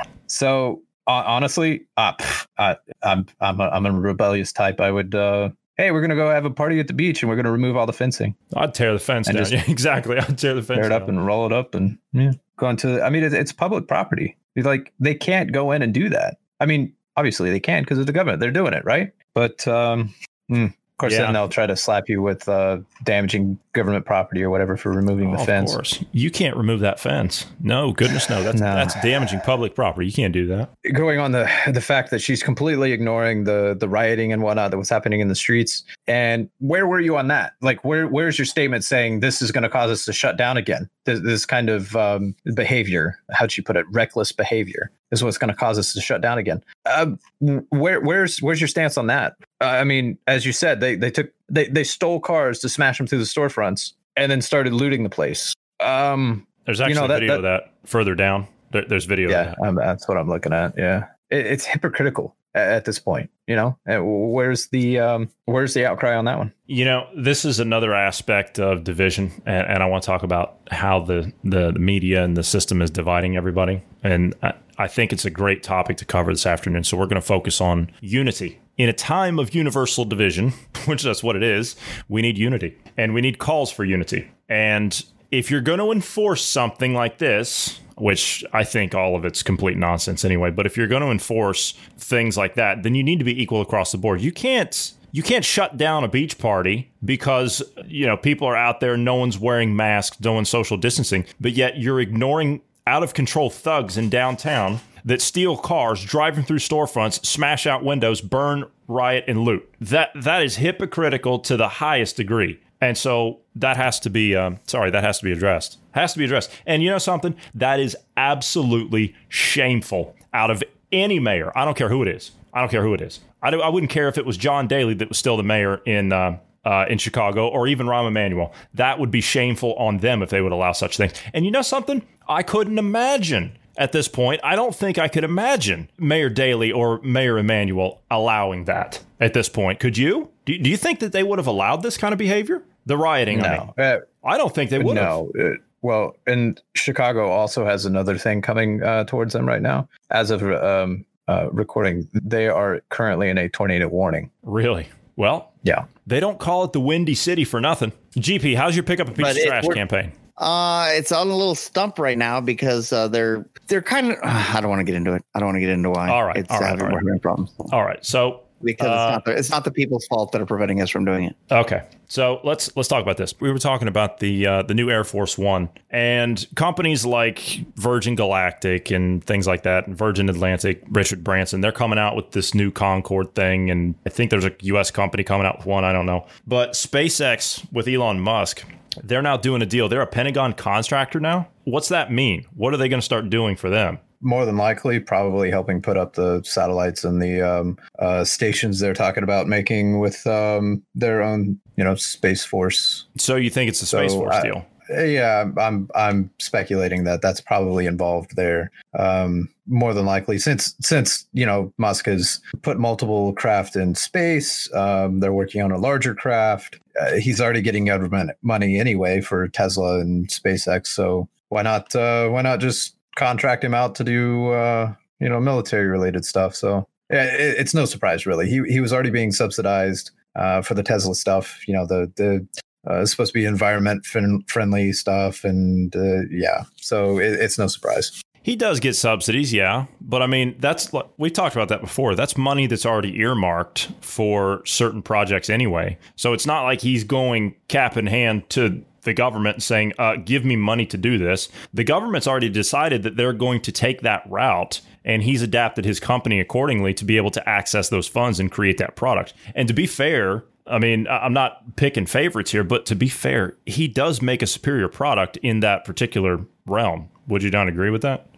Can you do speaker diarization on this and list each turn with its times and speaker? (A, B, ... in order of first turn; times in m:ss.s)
0:00.3-0:08.4 A
0:08.5-0:11.1 B
0:09.3-0:09.6 A
0:10.7-0:25.8 A
0:21.1-0:21.4 B
0:25.2-0:30.7 B
0:28.5-0:29.0 A
0:30.8-0:57.4 A
0:56.7-0:59.6 B
0:59.3-1:06.5 A
1:06.7-2:23.7 B
2:23.3-2:24.1 A
2:24.2-2:25.2 B
2:24.8-2:34.3 A
2:34.4-2:35.5 B
2:36.0-2:40.2 B
2:39.2-2:39.8 C
2:40.4-2:47.7 C
2:46.1-2:47.0 B
2:47.7-2:49.2 B
2:48.6-2:51.4 C
2:51.5-3:14.0 B
3:14.2-3:23.1 A
3:23.2-3:24.6 B
3:23.9-3:58.2 A
3:58.4-4:28.2 B